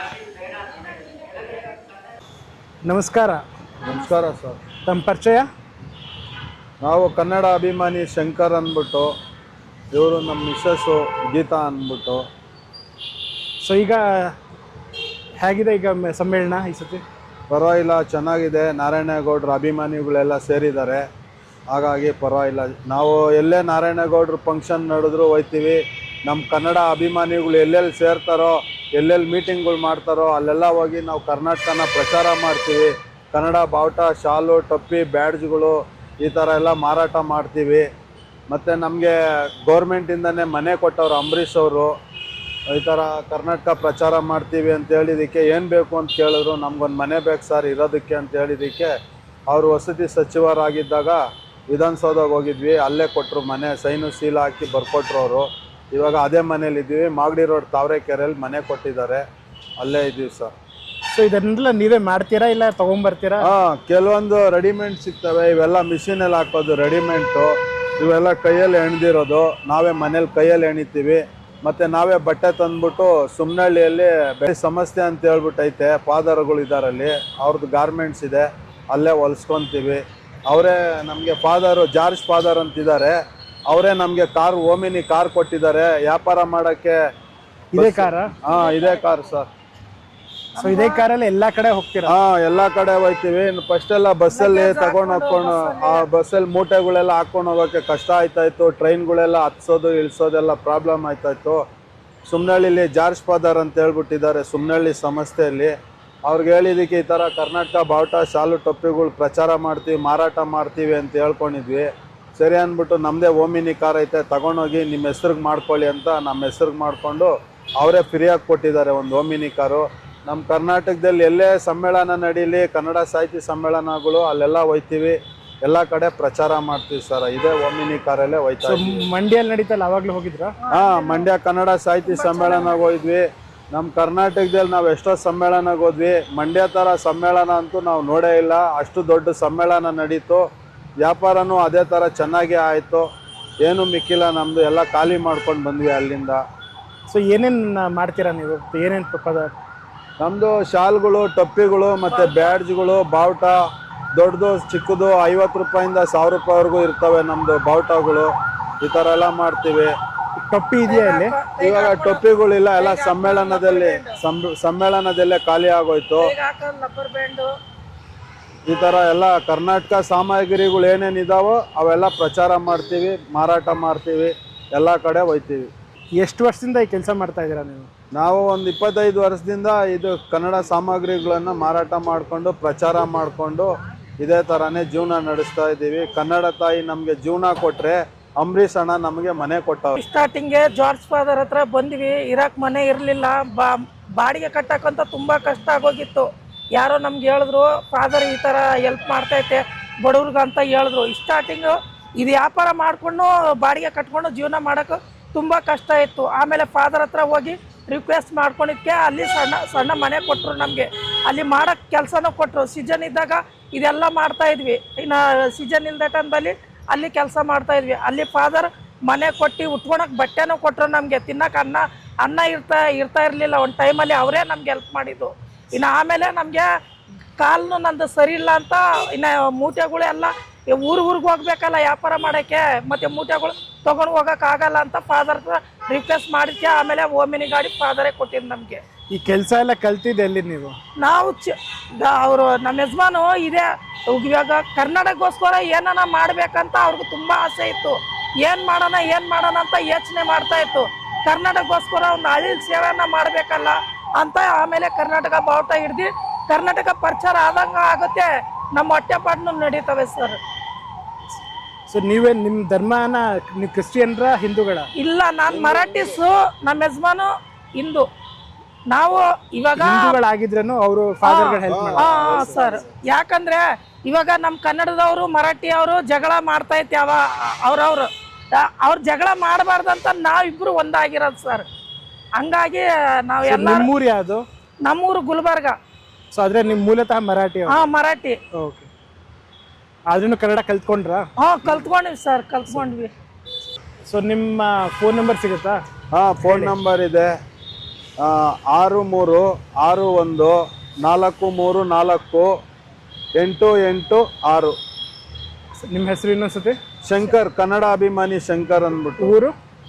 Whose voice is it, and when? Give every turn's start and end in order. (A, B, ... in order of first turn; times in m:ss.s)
0:02.8-0:03.4 A
0:03.8-0:04.6 B
0:04.9-0:05.5 A
0:06.8-0:09.1 B
0:09.9-0:12.2 B
0:13.6-0:14.4 A
0:15.4-0:17.0 A
0:17.5-0:21.0 B
0:21.7-0:37.9 B
0:38.5-0:41.9 B
0:42.7-0:48.9 B
0:49.5-0:51.2 B
0:51.7-0:59.2 B
0:59.8-1:00.5 B
1:01.1-1:03.5 A
1:03.4-1:27.0 B
1:27.7-1:28.4 A
1:27.8-1:29.5 B
1:28.5-1:29.0 C
1:30.6-1:31.1 C
1:30.6-1:32.1 A
1:32.1-1:41.6 B
1:34.3-1:36.1 C
1:42.3-1:45.7 B
1:46.3-2:09.0 B
2:08.6-2:10.6 A
2:10.6-2:11.3 C
2:10.7-2:20.4 B
2:12.0-2:12.9 C
2:21.0-2:23.1 B
2:23.6-2:26.4 B
2:27.1-2:29.6 A
2:30.2-2:33.6 B
2:32.1-2:32.6 C
2:34.2-2:38.3 B
2:38.8-2:39.9 B
2:40.4-2:41.4 A
2:40.8-2:42.2 C
2:41.6-2:46.3 B
2:42.8-2:44.2 C
2:46.2-2:47.5 C
2:48.7-2:55.7 B
2:56.2-2:57.9 A
2:58.2-3:10.0 B
3:10.0-3:46.7 C
3:47.4-3:58.8 C
3:59.1-4:00.8 A
4:01.0-4:20.4 C
4:21.9-4:24.9 A
4:25.0-4:28.1 C
4:25.5-4:26.1 B
4:28.9-4:30.2 C
4:29.8-4:32.6 A
4:31.2-4:41.6 C
4:31.7-4:32.9 B
4:42.4-4:43.9 C
4:43.4-4:44.4 A
4:44.8-4:45.8 C
4:46.3-4:47.8 A
4:47.7-4:48.4 C
4:48.5-4:48.9 A
4:50.1-4:51.3 A
4:51.4-4:53.1 C
4:54.1-4:55.8 A
4:56.1-4:57.3 B
4:56.4-4:56.8 A
4:58.2-5:02.6 B
5:03.4-5:04.8 B
5:05.9-5:06.8 A
5:07.1-5:09.4 B
5:09.2-5:09.6 A